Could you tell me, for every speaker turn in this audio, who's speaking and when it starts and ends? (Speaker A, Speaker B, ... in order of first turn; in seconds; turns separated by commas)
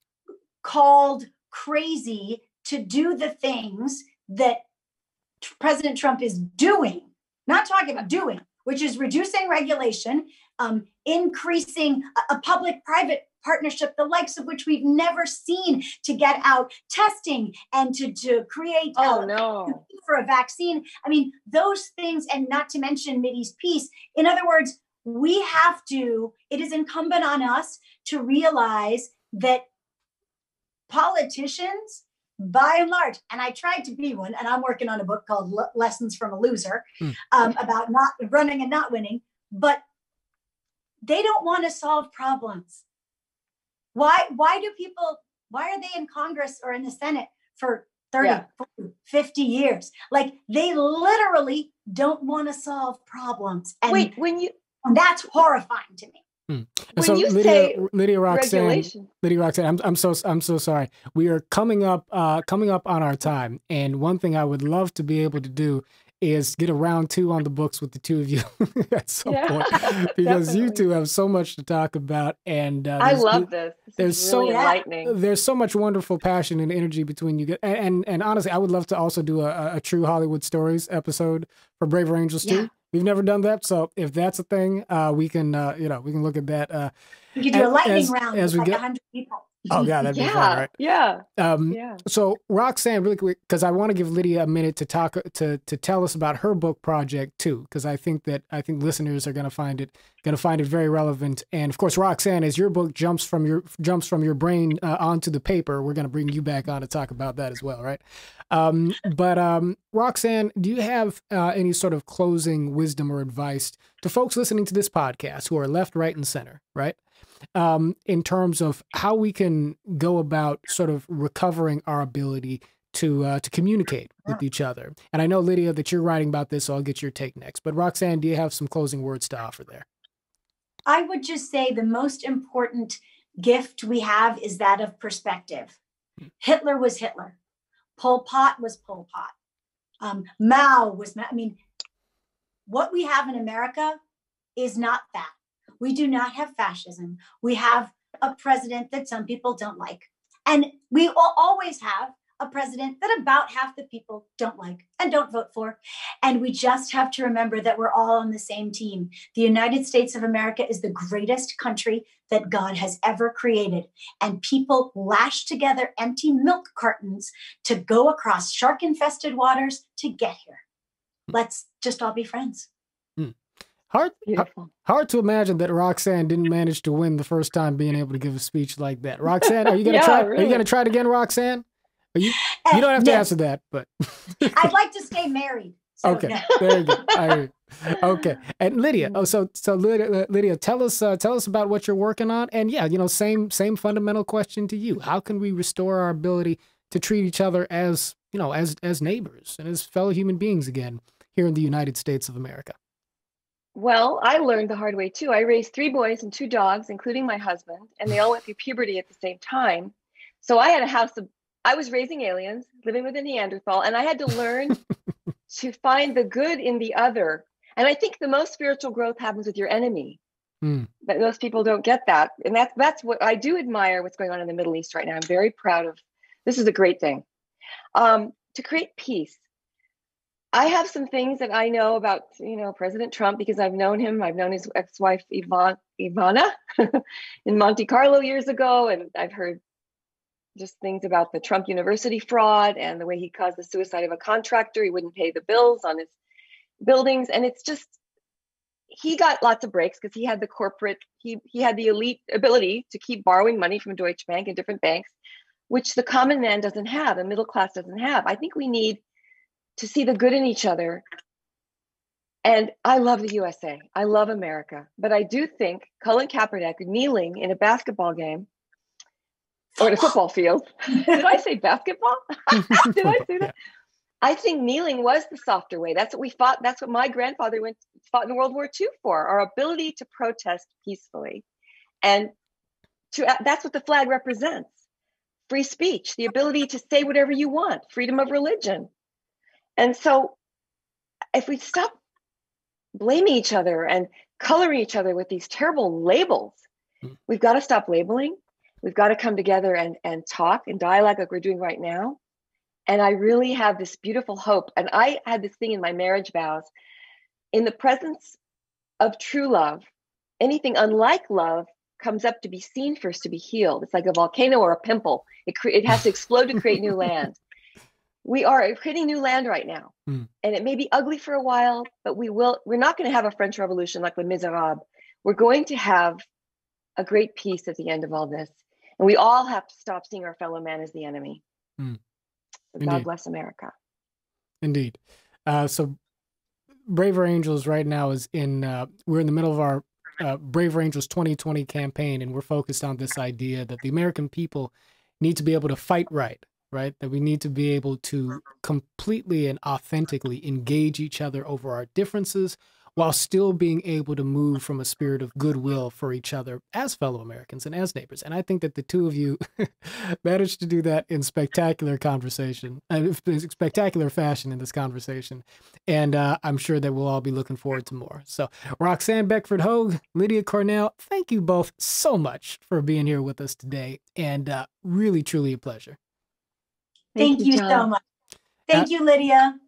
Speaker A: 0.6-4.6, Speaker A: 5.4-29.6, Speaker B: 18.9-19.8, Speaker A: 30.9-39.8, Speaker A: 41.0-42.8, Speaker A: 43.9-54.1, Speaker B: 53.9-54.5, Speaker A: 54.8-56.2, Speaker C: 56.5-73.5, Speaker B: 57.0-59.1, Speaker B: 69.3-70.8, Speaker B: 73.0-75.1, Speaker C: 74.0-86.9, Speaker A: 74.4-74.8, Speaker A: 87.4-89.7, Speaker C: 87.5-88.8, Speaker C: 89.7-90.7, Speaker B: 90.1-92.0, Speaker C: 91.4-117.0, Speaker C: 117.5-129.9, Speaker A: 130.9-135.8, Speaker A: 136.4-137.4, Speaker A: 138.0-139.3, Speaker A: 140.0-141.6, Speaker A: 142.7-144.0, Speaker A: 144.6-170.6, Speaker A: 171.3-172.7, Speaker C: 173.9-184.7, Speaker B: 174.3-174.7, Speaker B: 179.8-180.6, Speaker A: 182.6-183.3, Speaker A: 184.5-187.0, Speaker C: 186.0-202.8, Speaker B: 186.6-187.4, Speaker B: 203.7-214.8, Speaker B: 215.5-220.2, Speaker C: 220.6-220.9, Speaker B: 221.1-227.2, Speaker B: 227.9-229.4, Speaker B: 230.5-239.6, Speaker B: 240.6-246.1, Speaker B: 246.8-248.0, Speaker B: 248.9-255.1, Speaker B: 255.7-259.0, Speaker B: 259.8-261.0, Speaker B: 262.4-268.5, Speaker B: 269.8-273.5, Speaker B: 274.2-281.4, Speaker B: 282.0-282.3, Speaker B: 283.1-284.7, Speaker B: 285.5-288.9, Speaker B: 289.8-290.4, Speaker B: 291.3-292.0, Speaker B: 292.9-296.6, Speaker B: 297.3-302.2, Speaker B: 302.9-306.7, Speaker B: 307.5-308.4, Speaker B: 309.0-309.8, Speaker B: 310.4-317.4, Speaker B: 318.2-326.2, Speaker B: 327.0-331.4, Speaker B: 332.8-333.7, Speaker C: 332.8-333.1, Speaker C: 334.6-336.0, Speaker C: 336.9-376.0, Speaker B: 377.1-377.9, Speaker A: 377.2-378.0, Speaker A: 378.7-379.6